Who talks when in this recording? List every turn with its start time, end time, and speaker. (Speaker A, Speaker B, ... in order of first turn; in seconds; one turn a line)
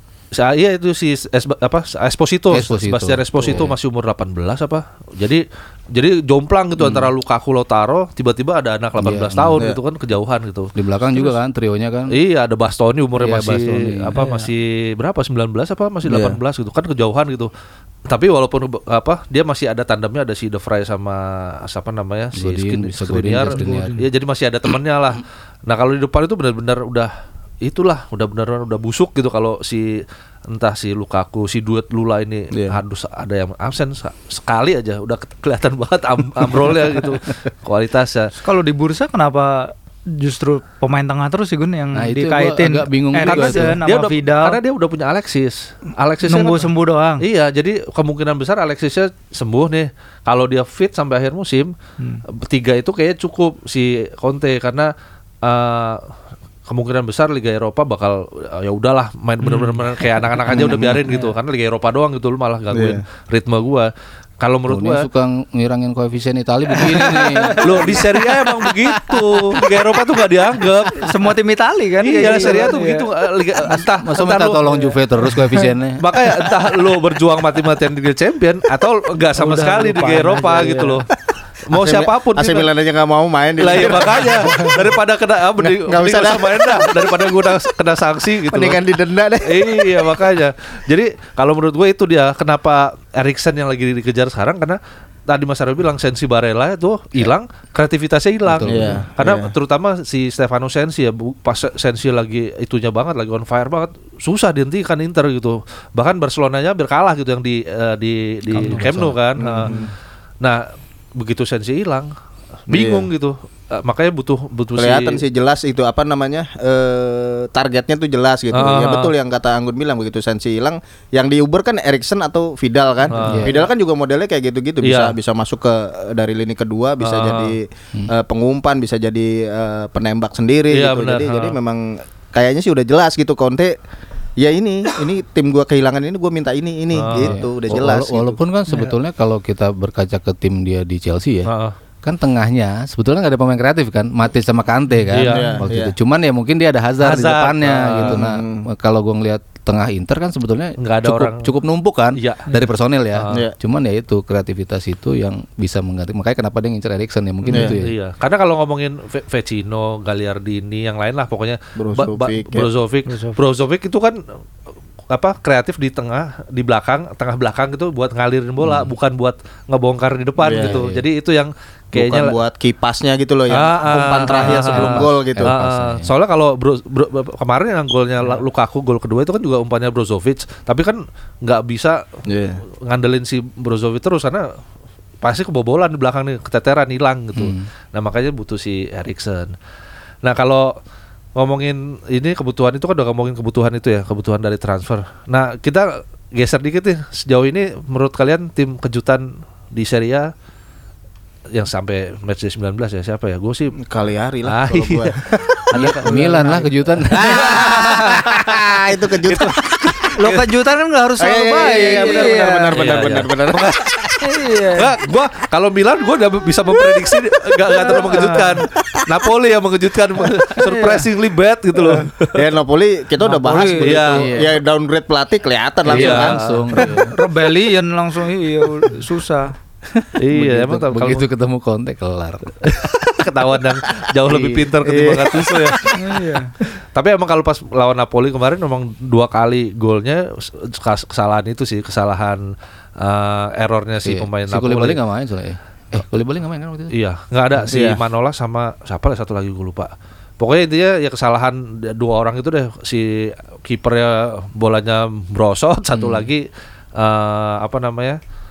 Speaker A: 0.3-11.3
Speaker B: 2.5-3.7
Speaker C: 3.4-3.7
Speaker C: 6.8-7.1
Speaker B: 9.0-9.7
Speaker B: 10.7-12.1
Speaker A: 12.1-17.5
Speaker B: 13.2-14.2
Speaker D: 14.2-14.5
Speaker C: 16.0-16.4
Speaker A: 18.1-27.1
Speaker B: 22.4-23.9
Speaker D: 23.5-24.1
Speaker A: 27.6-38.3
Speaker C: 32.5-32.8
Speaker D: 38.4-44.6
Speaker B: 41.9-43.8
Speaker A: 43.2-51.7
Speaker D: 46.3-47.2
Speaker A: 52.3-54.9
Speaker A: 55.4-56.0
Speaker A: 56.7-65.0
Speaker D: 59.4-60.2
Speaker C: 60.5-61.0
Speaker D: 61.0-61.3
Speaker C: 62.7-63.0
Speaker B: 64.7-68.2
Speaker D: 66.8-67.8
Speaker A: 67.6-71.1
Speaker D: 71.0-73.0
Speaker A: 72.0-74.7
Speaker B: 73.7-76.0
Speaker A: 76.0-81.1
Speaker D: 79.4-81.0
Speaker A: 81.7-82.7
Speaker C: 81.7-84.9
Speaker A: 83.6-88.8
Speaker C: 85.6-87.3
Speaker C: 88.5-90.2
Speaker A: 89.4-109.8
Speaker B: 98.5-99.0
Speaker C: 98.7-99.5
Speaker B: 108.5-109.2
Speaker D: 108.5-108.9
Speaker C: 109.4-109.9
Speaker D: 109.6-109.9
Speaker A: 111.1-112.1
Speaker A: 112.7-115.2
Speaker C: 112.7-113.1
Speaker C: 114.8-133.8
Speaker A: 118.5-119.1
Speaker A: 123.1-123.7
Speaker B: 123.1-123.6
Speaker A: 124.8-125.2
Speaker A: 127.0-127.5
Speaker A: 130.7-131.6
Speaker C: 134.4-138.4
Speaker A: 136.9-137.4
Speaker B: 137.2-141.5
Speaker A: 141.4-141.8
Speaker B: 142.0-157.9
Speaker A: 145.1-145.6
Speaker C: 145.3-145.9
Speaker A: 147.0-148.2
Speaker C: 148.0-148.7
Speaker A: 150.8-151.5
Speaker A: 152.1-152.4
Speaker A: 153.1-153.5
Speaker D: 157.4-157.7
Speaker A: 157.8-164.2
Speaker C: 161.8-162.7
Speaker D: 163.1-163.4
Speaker A: 165.1-172.4
Speaker C: 170.4-170.8
Speaker B: 170.5-171.0
Speaker C: 171.9-175.5
Speaker A: 173.5-182.0
Speaker B: 174.3-176.1
Speaker C: 182.3-182.6
Speaker A: 182.8-184.5
Speaker A: 185.2-189.6
Speaker B: 187.3-187.7
Speaker A: 190.2-190.7
Speaker A: 191.3-200.3
Speaker A: 201.5-203.8
Speaker C: 203.8-205.6
Speaker A: 204.4-206.4
Speaker B: 205.7-207.8
Speaker D: 206.1-206.7
Speaker A: 207.1-208.3
Speaker C: 207.1-210.1
Speaker A: 209.2-210.4
Speaker D: 210.1-212.7
Speaker C: 211.2-214.1
Speaker A: 212.7-213.9
Speaker D: 214.2-214.9
Speaker A: 214.7-222.5
Speaker D: 217.7-218.6
Speaker C: 217.8-218.3
Speaker D: 220.6-221.1
Speaker C: 221.9-227.0
Speaker D: 223.2-224.0
Speaker A: 223.8-224.4
Speaker B: 224.1-224.6
Speaker B: 225.8-227.2
Speaker A: 225.8-226.9
Speaker D: 226.8-229.5
Speaker B: 229.9-232.7
Speaker A: 230.2-231.2
Speaker A: 232.6-236.2
Speaker B: 234.2-234.7
Speaker C: 234.8-235.9
Speaker D: 235.9-236.5
Speaker A: 236.9-245.0
Speaker B: 244.0-246.9
Speaker A: 246.9-258.2
Speaker C: 247.7-248.0
Speaker B: 255.9-256.3